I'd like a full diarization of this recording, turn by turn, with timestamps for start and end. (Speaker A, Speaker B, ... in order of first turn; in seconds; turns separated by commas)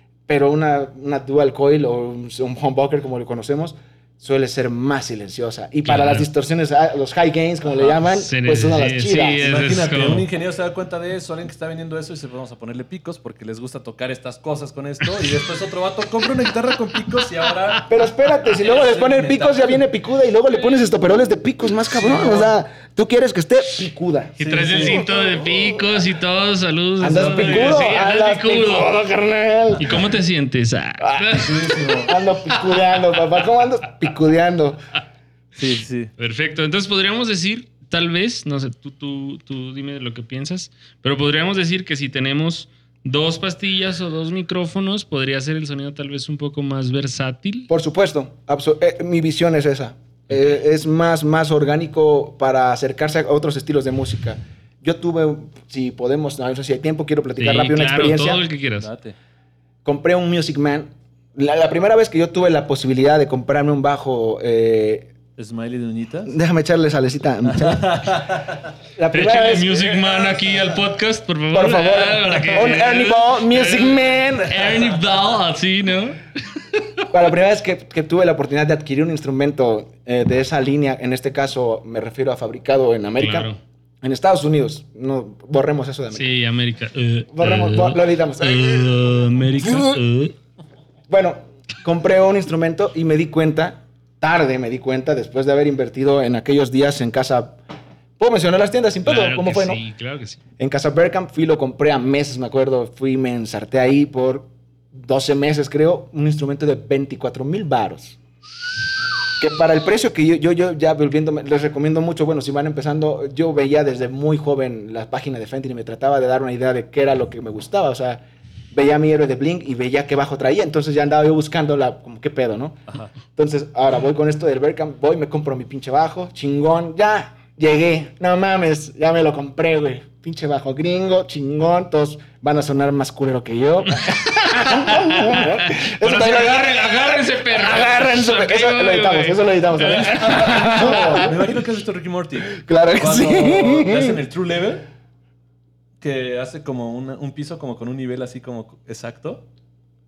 Speaker A: 0.3-9.5, Speaker B: 5.8-6.3, Speaker B: 8.1-10.3, Speaker C: 9.4-17.8, Speaker A: 17.9-25.8, Speaker C: 18.5-19.8, Speaker C: 21.9-22.5, Speaker B: 24.4-28.9, Speaker C: 24.5-25.1, Speaker A: 27.0-30.0, Speaker C: 27.1-27.8, Speaker B: 29.8-33.0, Speaker A: 31.0-31.4, Speaker C: 31.3-32.1, Speaker A: 32.0-34.8, Speaker C: 35.6-36.1, Speaker B: 36.2-47.7, Speaker A: 47.7-58.4, Speaker B: 57.4-58.9, Speaker C: 58.8-59.1, Speaker A: 59.8-65.1, Speaker C: 65.4-66.3, Speaker A: 66.3-68.2, Speaker C: 67.5-68.6, Speaker A: 69.0-70.3, Speaker B: 69.1-76.9, Speaker A: 71.5-74.8, Speaker A: 77.1-83.5, Speaker B: 83.2-83.6, Speaker A: 84.0-86.3, Speaker B: 86.1-90.3, Speaker A: 87.3-90.0, Speaker A: 91.1-97.6, Speaker A: 98.2-99.8, Speaker B: 99.0-100.4, Speaker A: 100.6-108.2, Speaker A: 109.4-141.5, Speaker B: 133.9-141.2, Speaker C: 139.8-144.8, Speaker A: 142.5-144.2, Speaker C: 146.0-149.4